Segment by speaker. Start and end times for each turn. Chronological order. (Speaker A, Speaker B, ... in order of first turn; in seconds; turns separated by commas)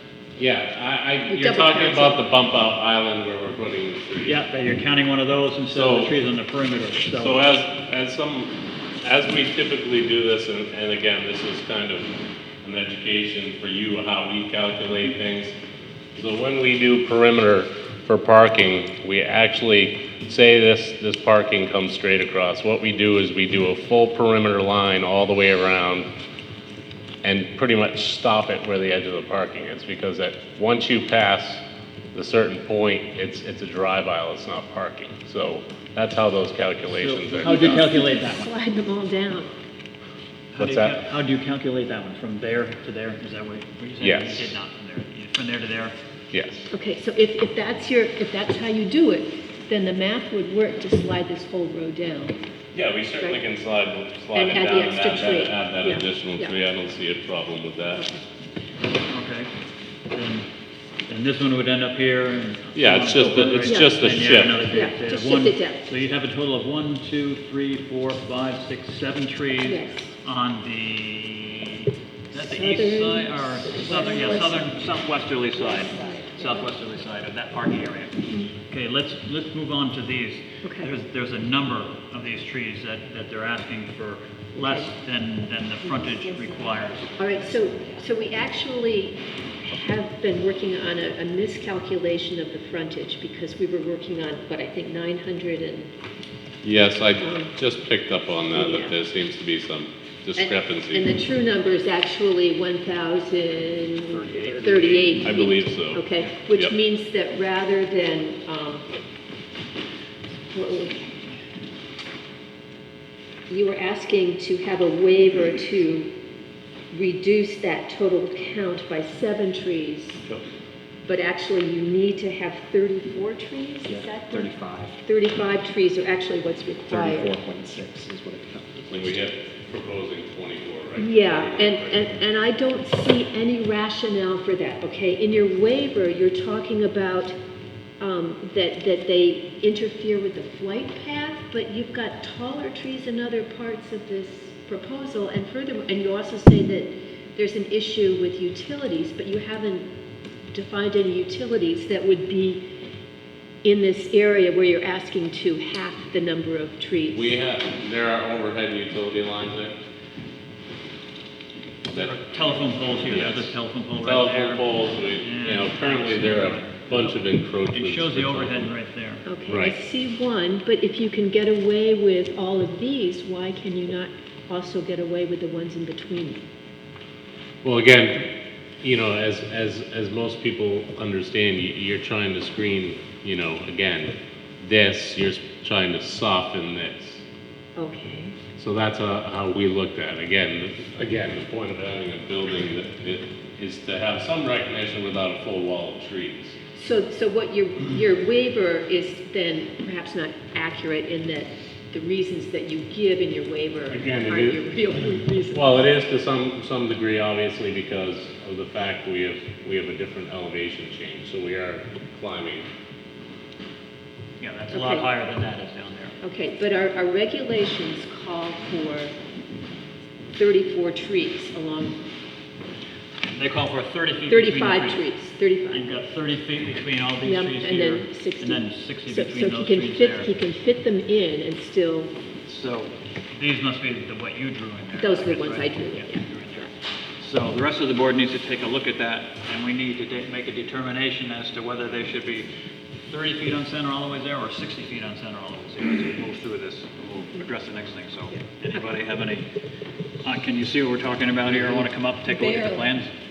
Speaker A: 0.4-4.4, Speaker B: 1.3-2.2, Speaker C: 4.2-7.3, Speaker A: 5.7-6.1, Speaker A: 7.1-12.1, Speaker A: 12.6-15.5, Speaker A: 16.2-26.1, Speaker A: 27.2-31.6, Speaker A: 32.1-37.9, Speaker C: 37.0-38.5, Speaker B: 37.4-39.5, Speaker C: 40.5-46.0, Speaker A: 40.6-41.0, Speaker A: 44.0-44.5, Speaker A: 46.3-46.7, Speaker B: 46.7-52.4, Speaker A: 52.7-58.1, Speaker B: 54.3-56.5, Speaker C: 59.1-59.5, Speaker C: 60.1-60.5, Speaker C: 61.1-87.1, Speaker A: 62.7-64.6, Speaker B: 63.6-63.9, Speaker B: 64.7-65.9, Speaker B: 69.6-70.1, Speaker B: 72.3-74.6, Speaker B: 75.8-76.7, Speaker B: 80.6-80.9, Speaker B: 84.6-84.8, Speaker B: 87.2-95.9, Speaker A: 96.6-101.0, Speaker B: 97.2-97.5, Speaker B: 98.5-98.9, Speaker B: 100.4-108.9, Speaker C: 104.1-105.5, Speaker A: 105.2-106.7, Speaker B: 110.5-111.2, Speaker B: 113.5-116.1, Speaker B: 116.9-120.2, Speaker B: 121.0-124.5, Speaker D: 123.9-124.9, Speaker B: 125.0-127.3, Speaker D: 126.9-128.9, Speaker A: 128.8-132.0, Speaker B: 131.0-137.3, Speaker B: 138.0-149.9, Speaker B: 150.5-152.7, Speaker B: 153.6-157.3, Speaker A: 157.1-159.7, Speaker A: 161.9-162.2, Speaker C: 161.9-164.7, Speaker A: 163.1-168.7, Speaker C: 165.2-169.2, Speaker B: 169.2-176.4, Speaker A: 169.5-169.8, Speaker A: 177.6-187.2, Speaker B: 187.8-188.3, Speaker A: 188.6-196.5, Speaker B: 196.7-205.7, Speaker A: 203.9-204.6, Speaker A: 205.5-212.6, Speaker C: 214.4-216.2, Speaker B: 214.7-215.1, Speaker B: 216.2-219.1, Speaker B: 220.4-222.0, Speaker C: 223.3-225.0, Speaker B: 224.3-225.9, Speaker C: 225.7-230.3, Speaker B: 227.2-232.1, Speaker C: 232.4-242.5, Speaker B: 235.0-236.7, Speaker C: 243.1-249.4, Speaker C: 250.2-253.1, Speaker B: 252.4-252.8